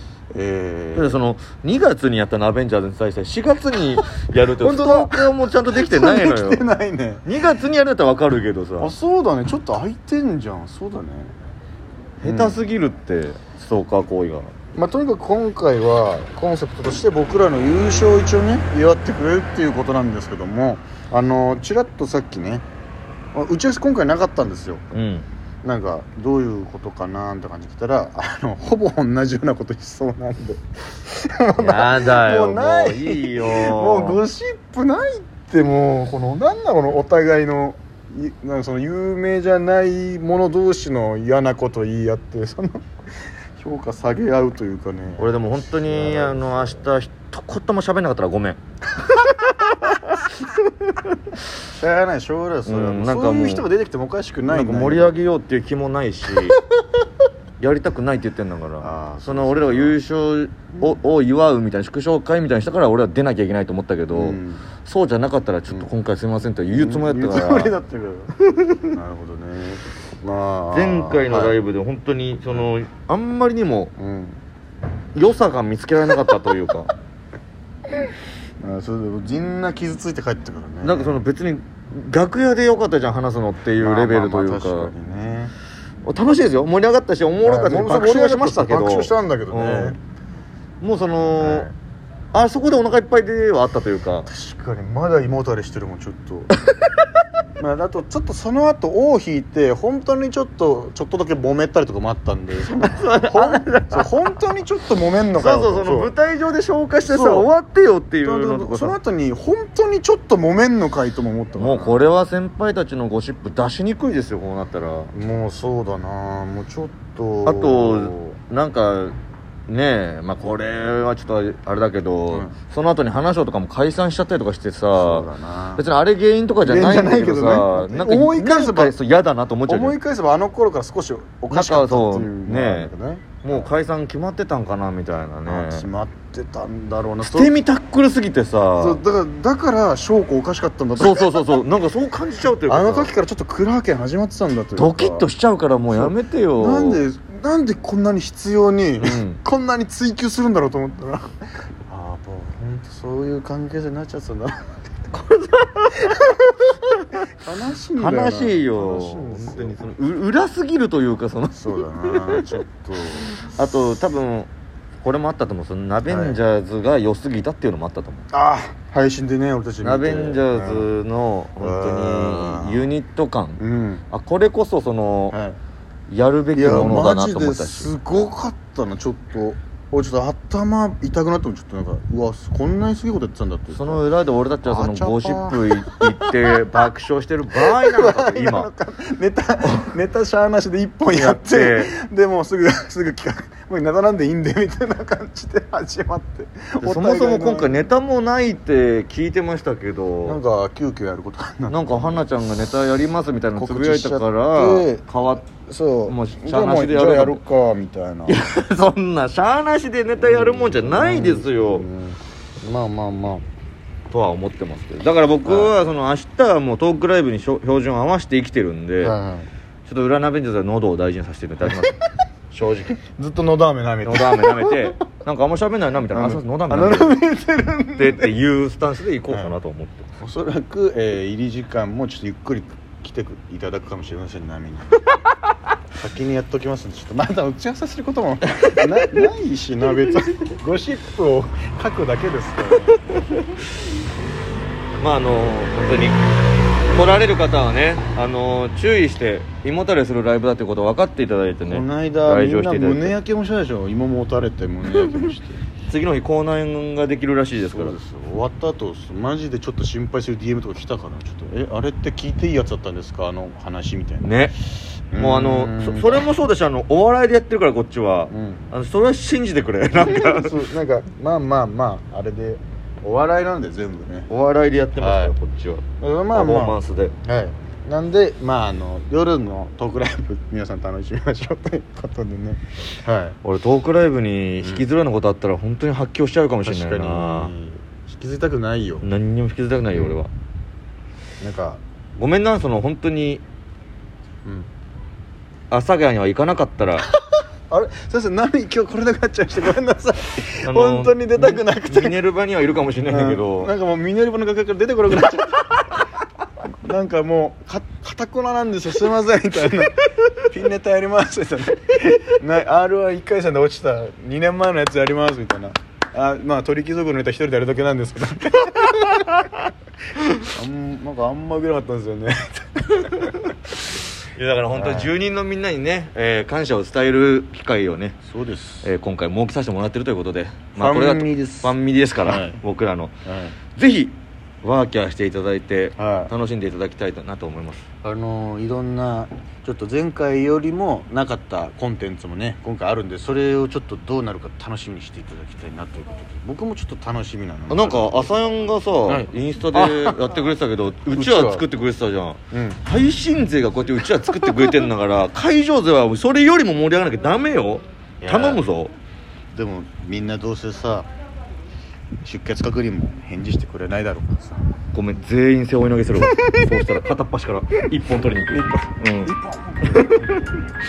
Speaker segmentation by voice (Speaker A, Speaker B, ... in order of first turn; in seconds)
Speaker A: 0.3-1.2, 4.6-7.3, 8.8-11.3, 12.2-12.6, 14.7-22.6, 23.3-24.9, 25.6-42.8, 43.6-46.9, 48.9-49.9, 51.7-55.2, 58.8-60.0, 64.1-64.7, 66.7-68.3, 68.9-71.6, 74.0-74.4, 78.6-81.2, 83.8-85.5, 87.4-90.0, 91.4-91.7, 94.2-96.5, 97.6-106.1, 107.0-107.5, 108.2-112.0, 115.1-118.3, 124.9-125.8, 126.6-128.9, 129.7-133.7, 135.4-137.5, 138.7-141.6, 142.7-145.2, 145.9-155.1, 155.9-156.7, 157.2-159.8, 161.5-163.9, 166.1-166.4, 168.3-170.9, 171.6-172.9, 173.6-174.0, 175.3-175.6, 176.5-184.1, 184.6-186.8, 187.5-197.9, 200.2-202.3, 203.5-208.4, 210.2-213.4, 215.4-215.8, 219.0-219.5, 221.6-221.9, 223.0-224.9, 226.1-228.3, 229.3-229.6, 230.2-234.9, 236.0-243.2, 251.6-255.6, 257.7-264.3, 265.1-266.3, 268.3-268.7, 270.0-274.3, 274.9-275.3, 276.0-283.4, 286.6-289.1, 289.9-290.2, 291.4-291.8, 297.2-302.2, 303.1-306.0, 306.8-319.2, 320.5-323.5, 324.7-325.1, 328.2-328.9, 330.8-332.6, 333.2-333.6, 336.0-336.3, 338.0-348.4, 349.1-350.2, 351.1-351.6, 352.5-352.8, 358.2-358.6, 359.5-361.1, 362.2-364.6, 366.2-366.4, 368.5-370.4
Speaker B: 0.9-6.6, 7.2-8.9, 12.2-14.5, 24.9-25.3, 31.6-34.2, 45.2-48.6, 52.6-53.6, 54.5-56.6, 57.6-67.7, 70.7-73.9, 75.1-76.9, 80.8-84.9, 86.0-90.0, 90.8-91.7, 92.3-94.3, 102.8-104.1, 105.3-109.0, 111.6-115.1, 117.4-119.2, 119.7-130.0, 131.5-132.9, 133.4-135.8, 137.2-139.0, 140.9-143.1, 144.8-147.0, 149.0-149.4, 155.1-156.1, 157.9-162.5, 163.3-164.5, 165.0-168.3, 169.8-175.4, 176.1-177.9, 183.7-188.7, 191.1-191.9, 196.8-200.4, 201.7-205.4, 206.1-207.4, 208.3-211.8, 214.1-219.1, 219.8-223.0, 224.0-227.2, 227.9-230.1, 245.0-246.2, 246.8-253.1, 255.9-257.9, 264.2-264.5, 265.1-270.5, 274.3-277.1, 283.4-287.5, 289.0-290.3, 292.1-293.4, 295.7-297.1, 300.6-303.7, 324.3-328.2, 328.8-333.1, 333.7-337.9, 347.7-358.9, 364.9-369.3, 369.9-370.4